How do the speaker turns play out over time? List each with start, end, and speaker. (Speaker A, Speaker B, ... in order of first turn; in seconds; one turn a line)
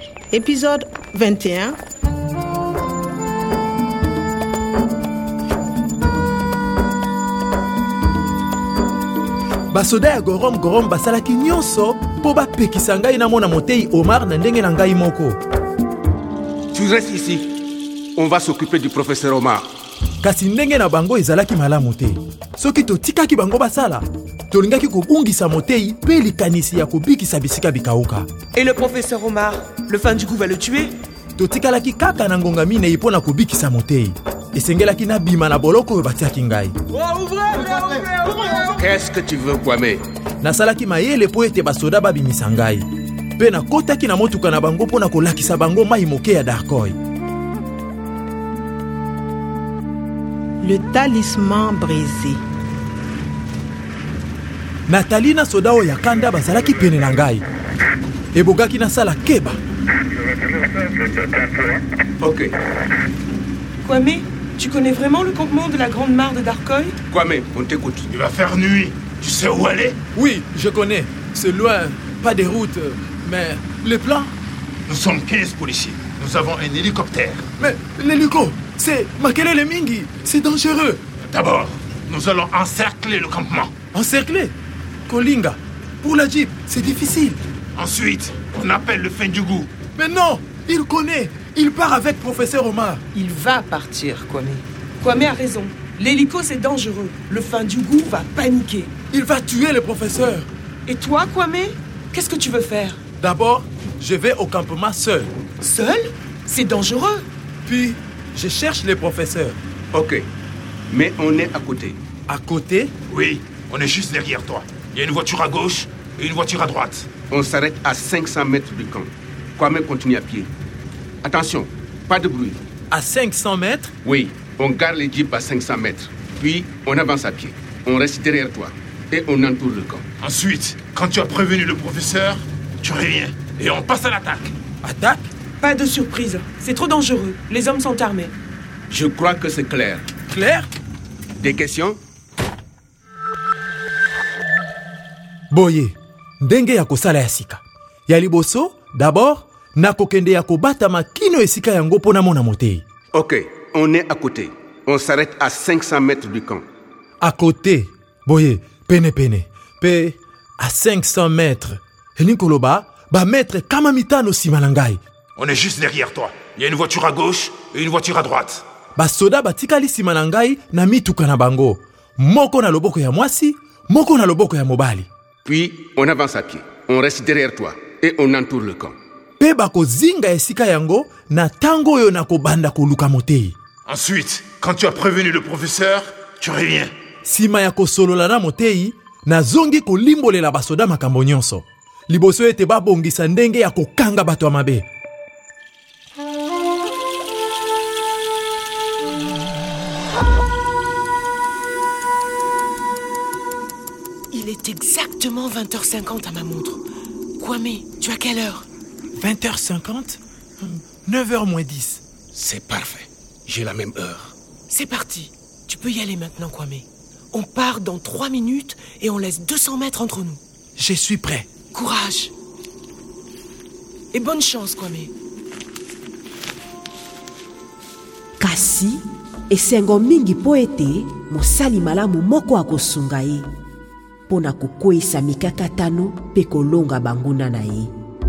Speaker A: 0.3-1.8
Speaker B: 9.7-15.4
Speaker C: 16.7-17.4
Speaker C: 18.1-19.6
Speaker B: 20.2-28.3
Speaker D: 28.5-30.9
Speaker B: 31.4-36.8
Speaker D: 37.1-38.5
Speaker C: 38.7-40.0
Speaker B: 40.4-42.9
Speaker B: 43.4-47.0
Speaker A: 50.6-52.4
Speaker B: 54.9-57.4
Speaker B: 58.3-59.6
Speaker C: 62.2-62.5
Speaker D: 63.8-67.0
Speaker C: 67.1-68.1
Speaker E: 68.1-70.0
Speaker B: 70.1-74.3
Speaker E: 74.9-77.5
Speaker B: 77.6-81.0
Speaker E: 81.3-83.7
Speaker B: 83.9-84.5
Speaker B: 85.1-87.4
Speaker E: 87.8-89.7
Speaker B: 90.0-93.0
Speaker D: 93.1-98.9
Speaker B: 99.1-100.5
Speaker D: 100.9-103.0
Speaker B: 103.2-105.3
Speaker D: 105.6-107.2
Speaker B: 107.6-109.6
Speaker C: 109.9-110.2
Speaker C: 110.9-112.0
Speaker B: 112.3-112.9
Speaker E: 113.1-117.1
Speaker C: 117.3-120.5
Speaker C: 121.2-122.6
Speaker B: 122.9-123.9
Speaker C: 124.0-130.1
Speaker E: 130.2-134.5
Speaker B: 134.8-135.3
Speaker D: 135.6-138.3
Speaker C: 138.9-140.1
Speaker B: 140.3-140.7
Speaker C: 141.4-142.0
Speaker B: 145.5-152.8
Speaker C: 153.1-156.6
Speaker B: 157.2-165.0
Speaker E: 165.4-168.6
Speaker B: 168.9-175.1
Speaker C: 175.4-178.9
Speaker B: 179.4-183.6
Speaker E: 183.8-186.9
Speaker B: 187.2-194.8
Speaker F: 205.8-206.2
Speaker F: 208.1-208.6
Speaker B: 209.2-212.0
Speaker C: 212.3-214.3
Speaker F: 214.9-215.2
Speaker F: 215.9-216.2
Speaker D: 217.5-218.0
Speaker F: 218.1-218.7
Speaker D: 218.9-220.4
Speaker B: 220.8-221.5
Speaker D: 221.7-222.3
Speaker D: 224.1-225.1
Speaker G: 228.4-233.5
Speaker G: 234.3-237.9